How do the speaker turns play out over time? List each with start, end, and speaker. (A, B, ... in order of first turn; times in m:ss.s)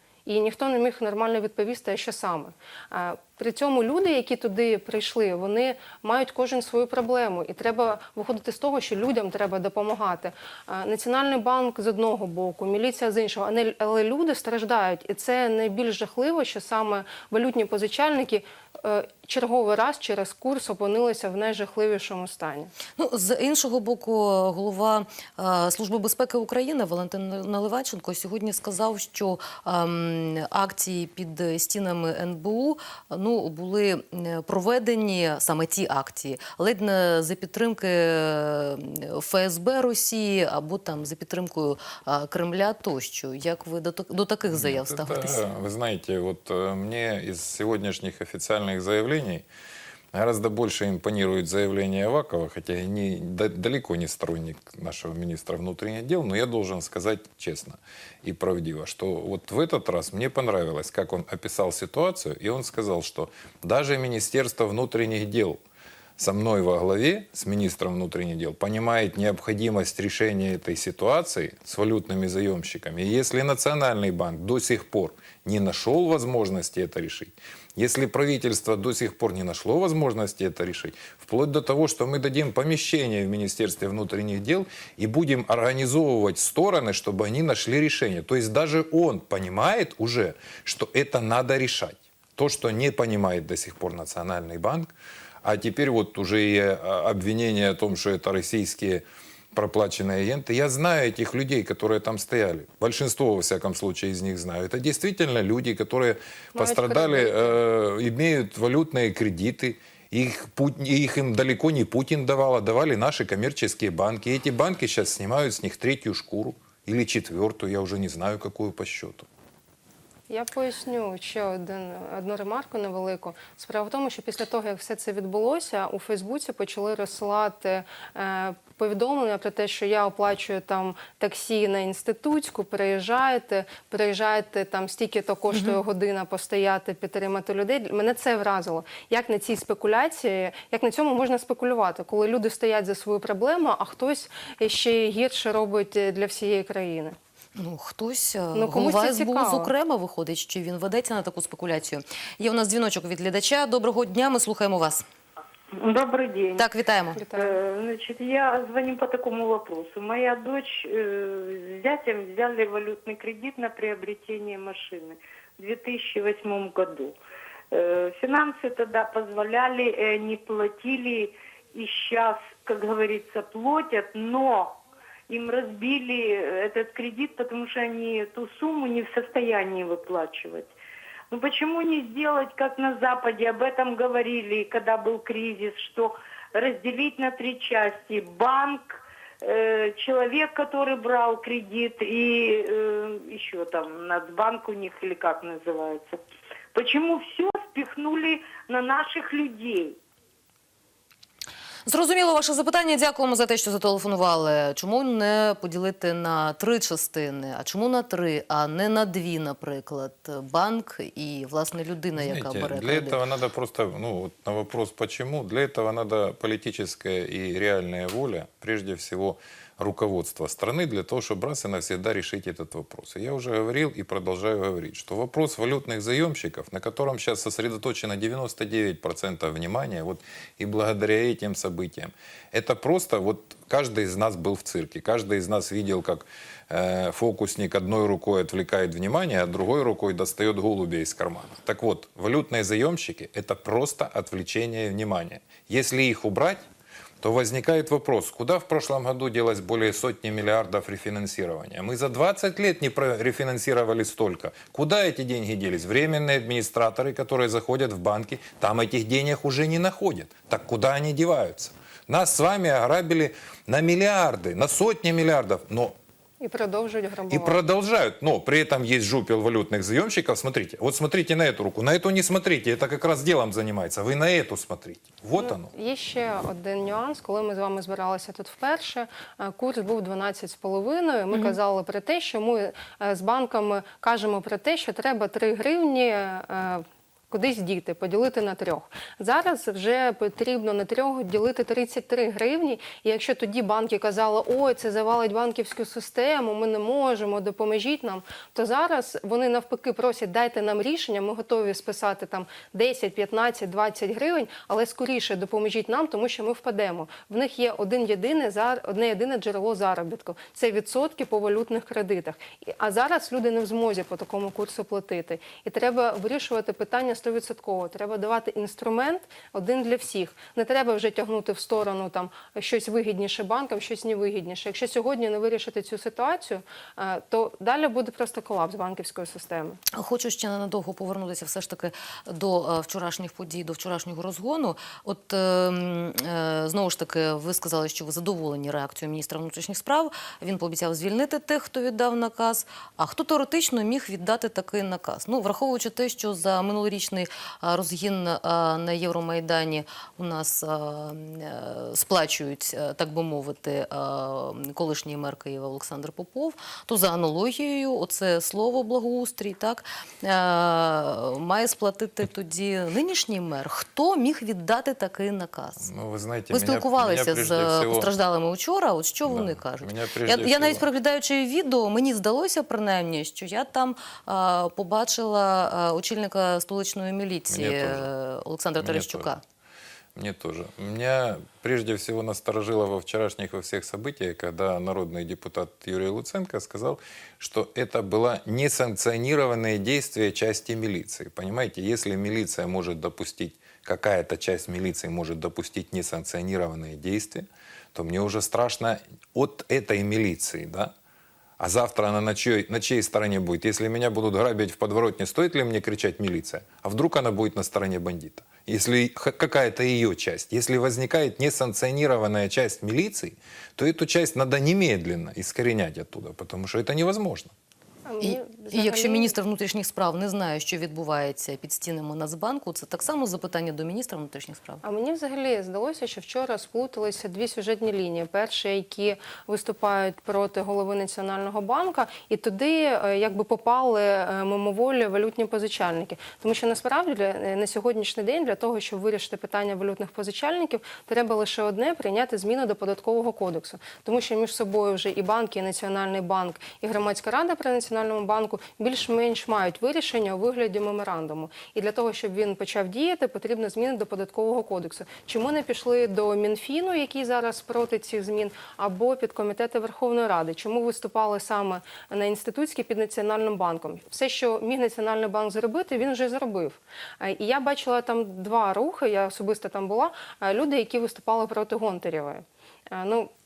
0:00.3-0:22.7 A
0:23.0-0:45.4 B
0:44.5-0:49.5 C
0:50.1-1:05.6 C
1:06.2-1:34.9 C
1:35.4-1:59.3 C
1:46.6-1:47.6 A
2:00.3-2:27.2 A
2:27.6-2:35.0 B
2:28.5-2:29.7 A
2:35.7-2:36.7 D
2:36.6-2:37.2 B
2:37.2-2:37.6 A
2:37.3-2:47.2 D
2:47.7-2:54.8 D
2:55.3-3:00.7 D
3:01.3-3:16.2 D
3:16.7-3:20.0 D
3:21.9-3:33.2 B
3:32.2-4:06.7 C
4:07.2-4:26.0 C
4:26.4-4:27.6 A
4:27.3-4:35.7 C
4:35.4-5:29.8 A
5:29.9-6:05.9 B
6:05.8-6:08.1 C
6:06.5-6:19.4 B
6:09.2-6:10.9 C
6:17.5-6:18.1 C
6:18.8-6:19.3 C
6:20.2-6:40.9 C
6:41.6-6:57.5 C
6:58.1-6:59.3 A
6:58.2-7:04.8 B
7:04.8-7:53.3 A